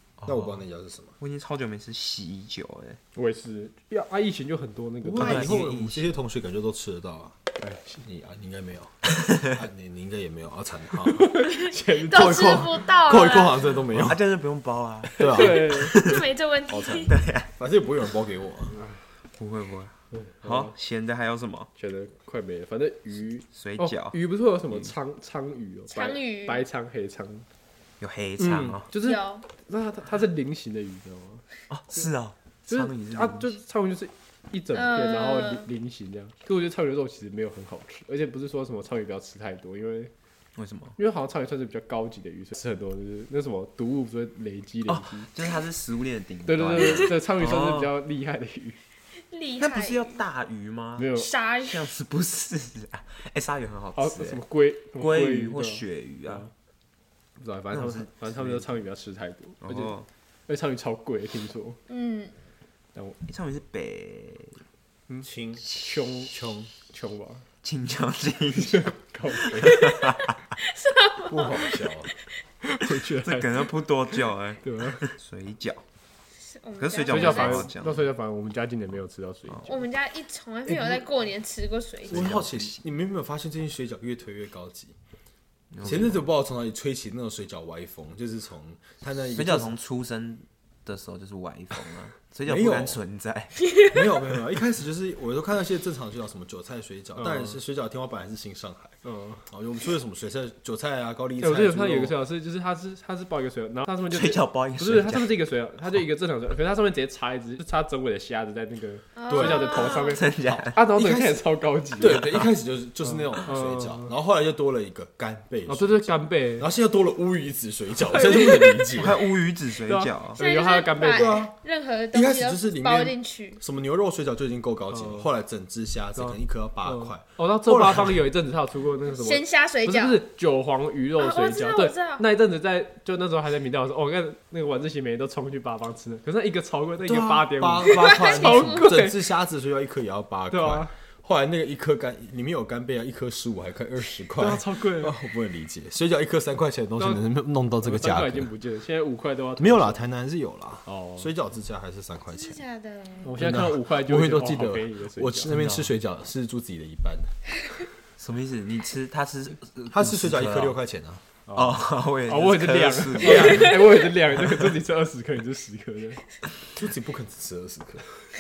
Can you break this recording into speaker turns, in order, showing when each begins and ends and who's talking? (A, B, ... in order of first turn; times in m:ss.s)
0:00.2-0:00.6 A
0:00.3-0:01.1 B
0:01.2-0:03.0 A
0:03.2-0:05.6 C
0:05.0-0:07.4 B
0:05.2-0:06.1 A
0:07.6-0:08.0 C
0:08.0-0:11.3 B
0:09.2-0:09.5 A
0:11.1-0:12.6 C
0:11.4-0:13.7 D
0:12.1-0:14.2 B
0:13.9-0:16.3 A
0:15.2-0:15.8 B
0:15.2-0:16.0 C
0:15.6-0:17.1 D
0:16.7-0:18.8 B
0:17.0-0:17.5 A
0:19.4-0:21.7 A
0:20.1-0:20.7 C
0:21.8-0:27.5 C
0:23.5-0:24.2 A
0:25.9-0:26.6 D
0:28.0-0:28.9 A
0:28.4-0:32.1 C
0:29.0-0:29.4 D
0:31.7-0:33.5 A
0:32.7-0:40.1 C
0:34.7-0:35.7 D
0:40.6-0:41.0 A
0:41.0-0:45.3 C
0:44.9-0:47.9 A
0:46.5-0:48.8 C
0:46.8-0:47.1 D
0:49.3-0:50.2 D
0:49.6-0:54.4 A
0:51.0-0:51.3 C
0:51.2-0:51.9 D
0:54.0-0:56.5 C
0:55.0-0:56.4 A
0:57.4-0:59.9 C
0:57.7-0:58.7 A
0:59.6-1:00.1 A
1:00.5-1:01.8 C
1:01.9-1:02.3 D
1:03.3-1:04.6 A
1:05.1-1:07.4 C
1:05.2-1:05.6 B
1:05.6-1:06.0 A
1:06.3-1:06.7 B
1:07.6-1:08.9 A
1:08.6-1:09.8 C
1:09.5-1:10.3 A
1:09.6-1:11.8 D
1:11.3-1:12.1 B
1:12.6-1:13.7 C
1:13.2-1:15.8 A
1:14.6-1:15.0 C
1:16.5-1:17.7 D
1:16.8-1:18.1 A
1:17.1-1:19.8 C
1:19.7-1:22.3 D
1:20.7-1:21.0 B
1:22.1-1:25.0 B
1:22.1-1:22.8 A
1:25.7-1:26.3 A
1:25.8-1:29.8 B
1:29.3-1:33.6 A
1:32.5-1:33.0 B
1:33.6-1:34.1 D
1:33.8-1:39.0 B
1:37.2-1:37.6 C
1:39.0-1:39.4 C
1:39.5-1:42.2 B
1:41.4-1:52.4 C
1:44.1-1:45.4 A
1:49.2-1:50.2 D
1:49.3-1:49.7 B
1:49.8-1:50.8 A
1:50.9-1:51.4 B
1:52.0-1:59.3 B
1:53.1-1:54.1 C
1:55.7-1:56.7 C
1:58.1-1:58.8 C
1:58.3-1:58.9 D
1:58.9-2:00.4 A
1:59.9-2:01.4 C
2:00.4-2:03.6 D
2:01.1-2:01.5 B
2:02.1-2:08.2 B
2:04.9-2:05.3 C
2:06.2-2:19.2 C
2:09.1-2:10.2 D
2:11.2-2:12.2 D
2:17.0-2:28.5 B
2:17.9-2:18.9 D
2:20.5-2:20.9 C
2:24.4-2:25.2 C
2:27.0-2:27.2 C
2:27.8-2:30.0 C
2:29.6-2:32.6 B
2:30.9-2:31.3 C
2:32.3-2:33.4 D
2:33.2-2:35.5 C
2:33.4-2:37.3 B
2:35.5-2:35.9 A
2:38.2-2:40.8 A
2:39.9-2:41.2 B
2:41.5-2:46.2 C
2:41.6-2:44.7 A
2:46.8-2:48.0 B